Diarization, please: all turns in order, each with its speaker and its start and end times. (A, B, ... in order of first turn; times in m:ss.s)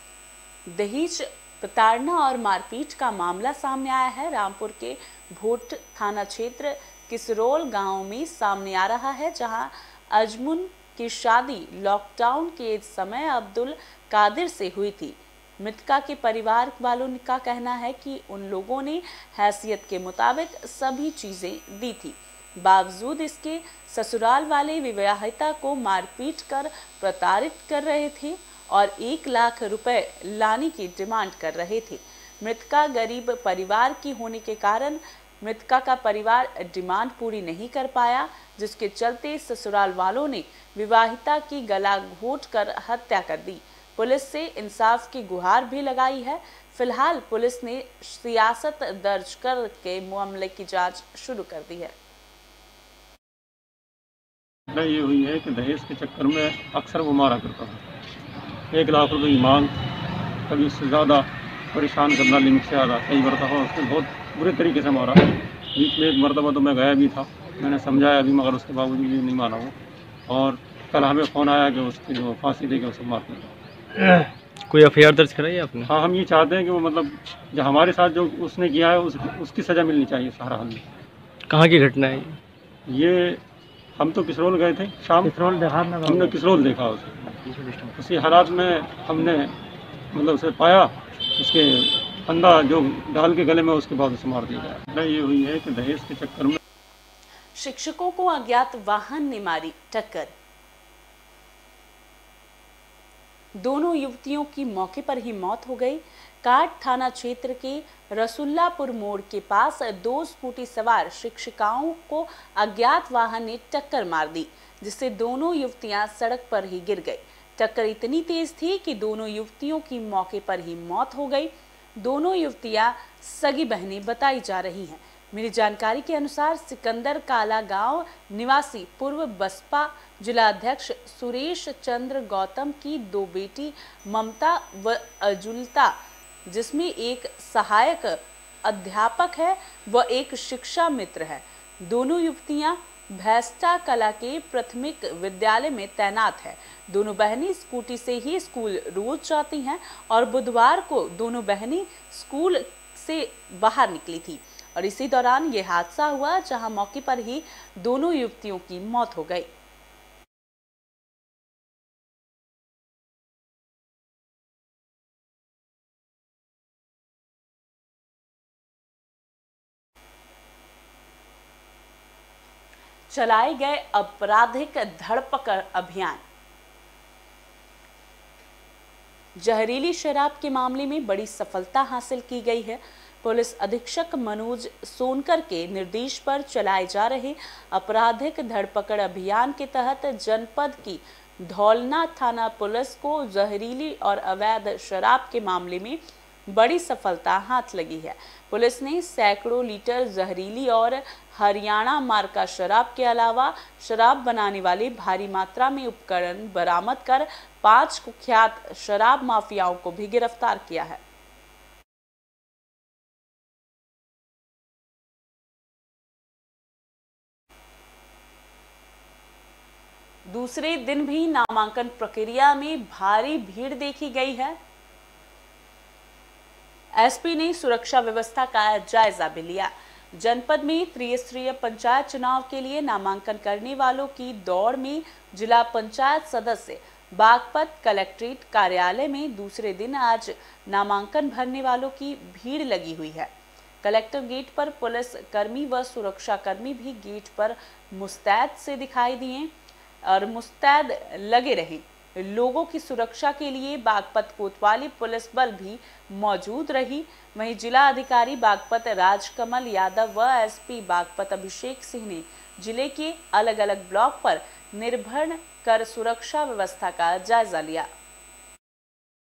0:00.7-0:51.9 A
0:54.7-0:57.8 B
0:58.7-0:59.7 B
1:00.5-1:09.7 B
1:10.3-1:13.5 B
1:14.0-1:15.9 C
1:15.8-1:20.8 B
1:21.5-1:22.4 C
1:22.9-1:23.4 B
1:24.0-1:25.4 B
1:25.2-1:26.5 C
1:26.0-1:27.3 B
1:27.3-1:27.9 C
1:28.0-1:29.5 B
1:30.1-1:36.6 B
1:37.6-1:40.3 A
1:43.6-2:15.9 A
2:16.5-2:39.5 A
2:53.1-2:56.2 A
2:59.4-3:31.0 A
3:40.3-3:44.6 A
3:47.0-4:03.3 A
4:03.8-4:09.5 A
4:10.0-4:27.9 A